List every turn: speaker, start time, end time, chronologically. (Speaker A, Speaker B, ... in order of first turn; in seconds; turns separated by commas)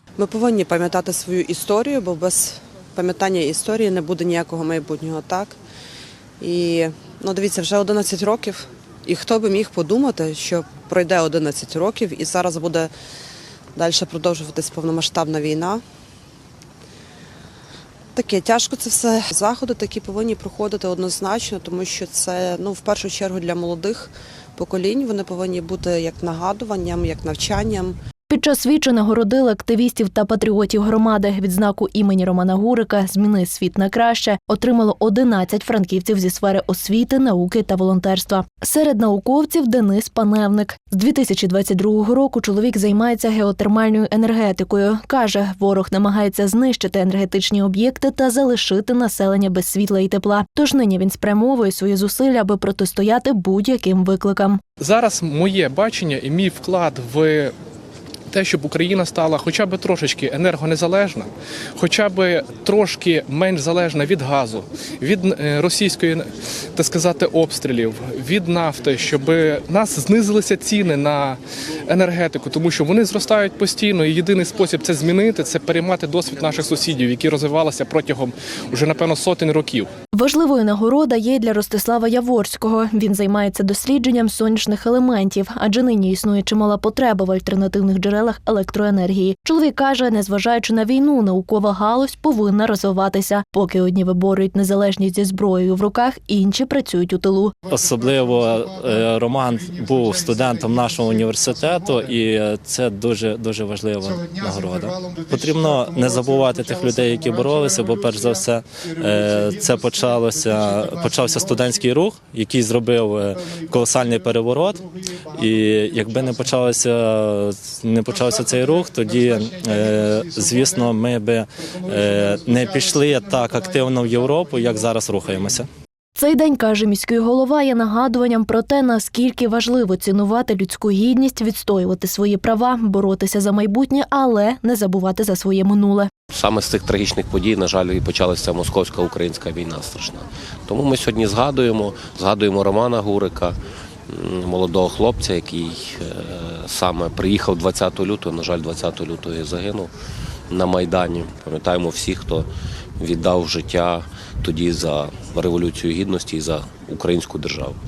Speaker A: 0.2-5.6, Speaker A: 6.4-12.9, Speaker A: 13.8-15.8, Speaker A: 18.2-28.0, Speaker B: 28.3-54.6, Speaker C: 54.8-57.5, Speaker C: 58.3-79.9, Speaker B: 80.1-97.5, Speaker D: 97.7-125.7, Speaker B: 126.2-136.1, Speaker E: 136.3-143.6, Speaker E: 144.1-149.9, Speaker E: 150.5-157.8